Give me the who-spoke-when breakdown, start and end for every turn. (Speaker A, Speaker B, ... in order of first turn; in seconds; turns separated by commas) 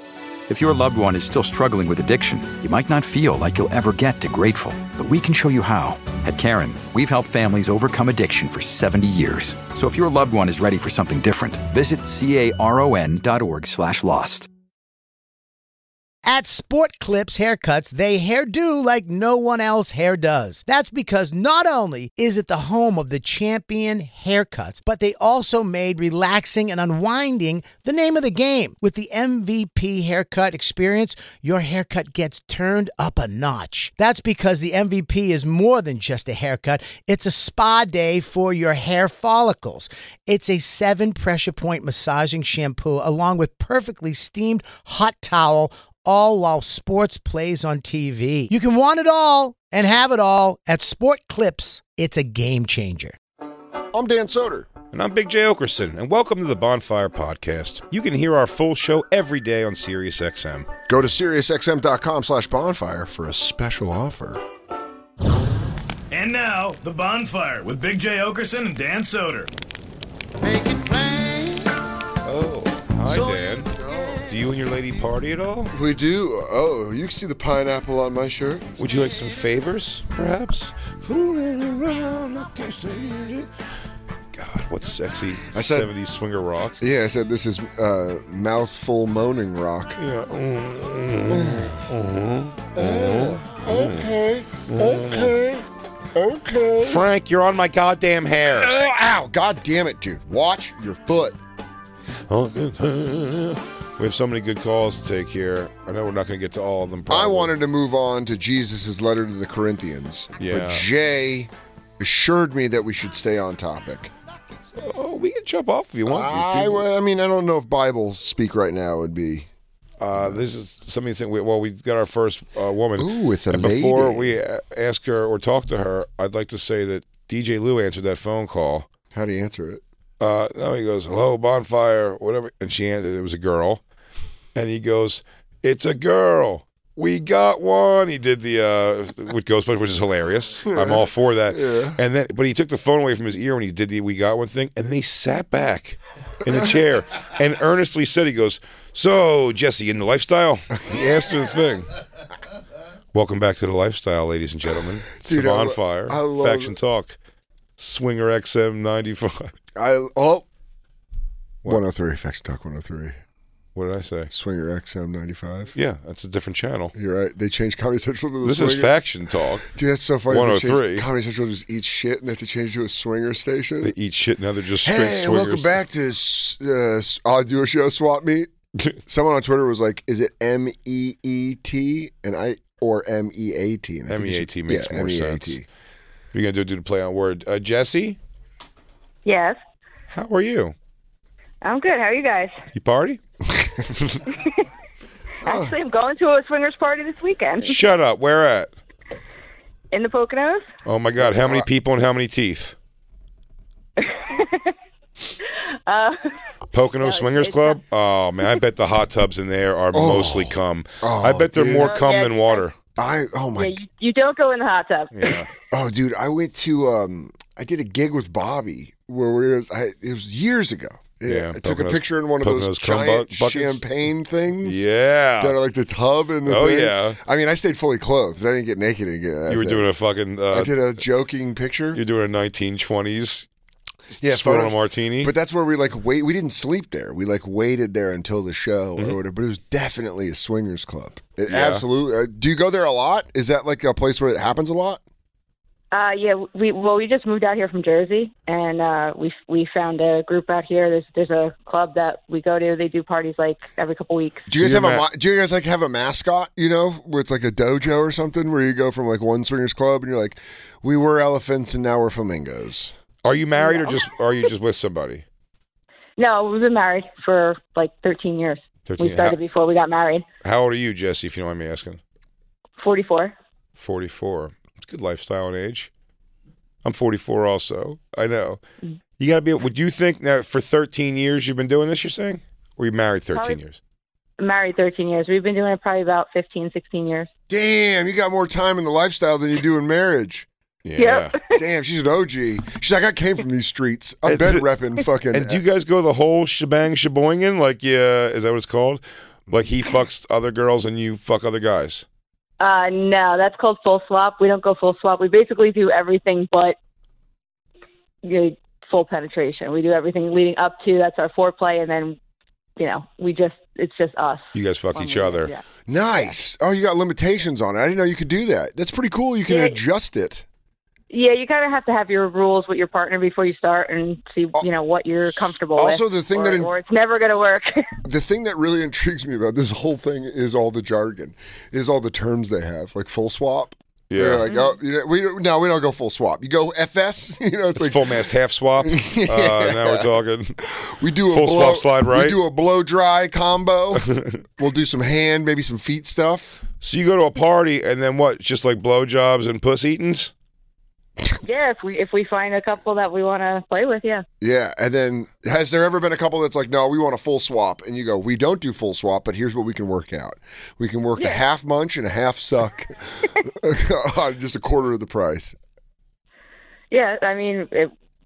Speaker A: 0.5-14.5, Speaker B: 16.2-53.2, Speaker C: 53.9-54.7, Speaker D: 54.9-60.7, Speaker C: 60.9-64.4, Speaker E: 66.1-69.5, Speaker C: 70.4-71.7, Speaker D: 72.2-73.7, Speaker C: 73.7-74.3, Speaker D: 74.2-75.7, Speaker C: 75.7-78.8, Speaker D: 78.8-83.5, Speaker D: 84.3-86.8, Speaker C: 85.5-85.9, Speaker C: 86.8-90.0, Speaker D: 90.0-94.1, Speaker C: 91.3-91.8, Speaker C: 92.8-97.0, Speaker D: 94.7-95.3, Speaker D: 96.8-98.8, Speaker C: 98.5-101.4, Speaker D: 102.3-107.5, Speaker C: 107.1-114.1, Speaker D: 110.4-110.8, Speaker D: 114.8-116.8, Speaker C: 116.1-119.5, Speaker D: 120.0-128.9, Speaker C: 120.1-120.4, Speaker C: 123.0-124.4, Speaker C: 129.1-129.8, Speaker D: 130.2-133.8, Speaker D: 134.6-151.9, Speaker C: 140.7-142.0, Speaker D: 153.1-157.2, Speaker C: 155.2-156.8, Speaker D: 157.8-159.5, Speaker C: 159.8-160.5, Speaker C: 161.7-163.2, Speaker D: 163.8-164.3, Speaker C: 164.3-165.7, Speaker D: 165.8-166.9, Speaker C: 166.9-168.9, Speaker D: 168.4-169.7, Speaker C: 169.7-173.9, Speaker D: 170.3-171.1, Speaker D: 173.8-175.7, Speaker C: 174.8-178.5, Speaker C: 179.1-185.6, Speaker D: 184.1-185.6, Speaker D: 186.3-188.2, Speaker F: 189.2-189.6, Speaker D: 190.1-190.7, Speaker F: 191.6-192.6, Speaker D: 192.8-193.2, Speaker C: 193.5-193.9, Speaker F: 194.3-194.6, Speaker C: 195.4-195.8, Speaker F: 195.4-197.8, Speaker D: 197.6-198.7, Speaker F: 199.9-200.7, Speaker D: 200.9-202.8, Speaker C: 201.2-201.7, Speaker F: 204.0-204.7, Speaker F: 205.9-206.3, Speaker D: 206.7-212.7, Speaker F: 207.0-207.8, Speaker C: 209.9-212.0, Speaker F: 211.7-212.6, Speaker C: 213.0-213.8, Speaker F: 213.6-215.4, Speaker D: 215.1-215.5, Speaker C: 215.7-224.8, Speaker D: 221.2-223.8, Speaker D: 224.6-225.6, Speaker C: 225.4-229.9, Speaker D: 226.5-227.2, Speaker D: 229.5-230.8, Speaker C: 230.5-232.0, Speaker D: 231.9-233.5, Speaker D: 234.2-235.3, Speaker C: 234.2-245.0, Speaker D: 241.5-241.8, Speaker F: 245.9-254.5, Speaker C: 254.5-262.9, Speaker D: 254.6-255.0, Speaker D: 263.2-265.2, Speaker F: 263.6-264.0, Speaker F: 266.2-270.2, Speaker D: 268.9-269.4, Speaker D: 270.4-272.0, Speaker F: 272.8-273.4, Speaker D: 273.8-275.9, Speaker D: 276.8-278.6, Speaker D: 279.2-283.8, Speaker F: 284.4-287.3, Speaker C: 287.5-290.5, Speaker D: 290.9-291.4, Speaker F: 291.0-291.4, Speaker C: 291.5-295.6, Speaker D: 294.2-294.6, Speaker D: 295.3-302.1, Speaker F: 302.6-306.8, Speaker F: 308.2-312.2, Speaker F: 312.8-315.6, Speaker D: 314.5-315.5, Speaker C: 315.9-320.4, Speaker F: 319.5-319.8, Speaker F: 321.1-327.9, Speaker C: 325.8-326.7, Speaker C: 328.0-340.1, Speaker D: 334.1-334.5, Speaker F: 334.4-334.7, Speaker D: 337.8-340.6, Speaker C: 340.7-344.1, Speaker D: 341.3-342.4, Speaker D: 343.9-344.4, Speaker C: 344.6-346.6, Speaker D: 346.8-350.3, Speaker F: 351.4-354.2, Speaker C: 354.4-365.6, Speaker F: 366.9-367.9